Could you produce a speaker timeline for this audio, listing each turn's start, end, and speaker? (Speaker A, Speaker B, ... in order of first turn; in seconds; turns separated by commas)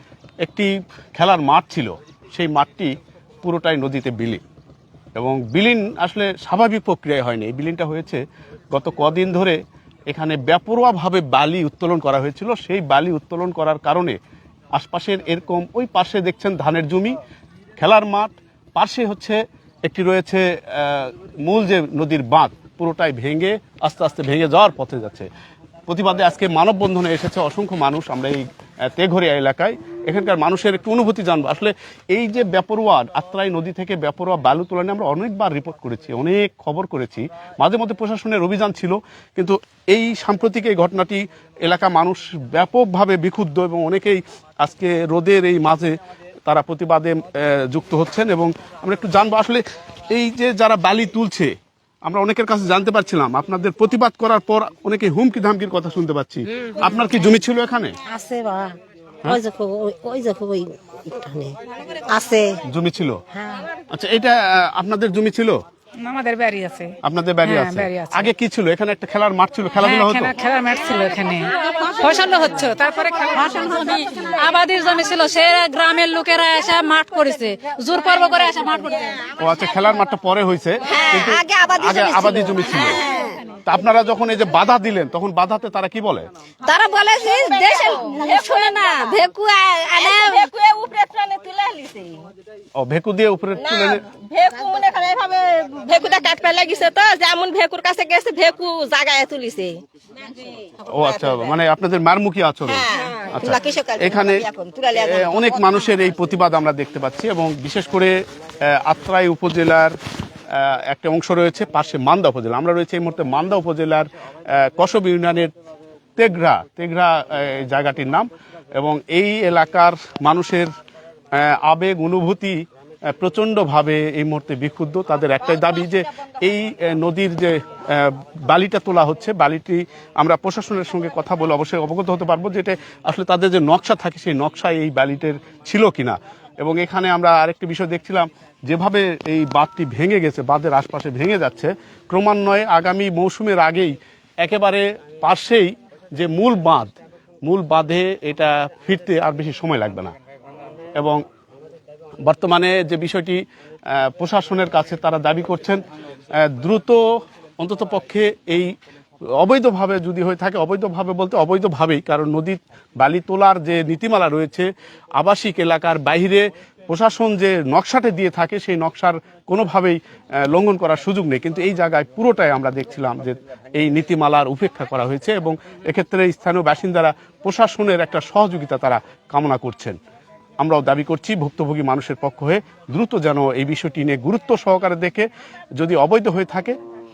Speaker A: 0.4-4.4, Speaker A: 5.2-8.2, Speaker A: 8.7-9.6, Speaker A: 10.1-14.2, Speaker A: 14.7-17.1, Speaker A: 17.8-25.3, Speaker A: 25.9-45.9, Speaker A: 46.5-58.0, Speaker B: 58.0-62.6, Speaker A: 62.6-63.2, Speaker B: 63.3-63.7, Speaker A: 63.9-65.6, Speaker C: 66.0-68.3, Speaker A: 67.0-70.3, Speaker C: 69.8-79.3, Speaker A: 79.3-83.0, Speaker D: 80.8-83.6, Speaker B: 82.2-82.7, Speaker A: 83.6-86.3, Speaker B: 86.7-90.5, Speaker D: 86.7-89.2, Speaker D: 89.9-92.3, Speaker A: 92.8-94.0, Speaker D: 93.5-101.5, Speaker A: 100.8-110.0, Speaker D: 102.6-105.8, Speaker A: 110.5-115.5, Speaker A: 116.2-120.7, Speaker A: 121.3-146.9, Speaker A: 147.4-150.1, Speaker A: 151.0-151.2, Speaker A: 152.2-155.8, Speaker A: 156.3-157.0, Speaker A: 157.6-158.7, Speaker A: 159.4-180.0, Speaker A: 180.6-186.8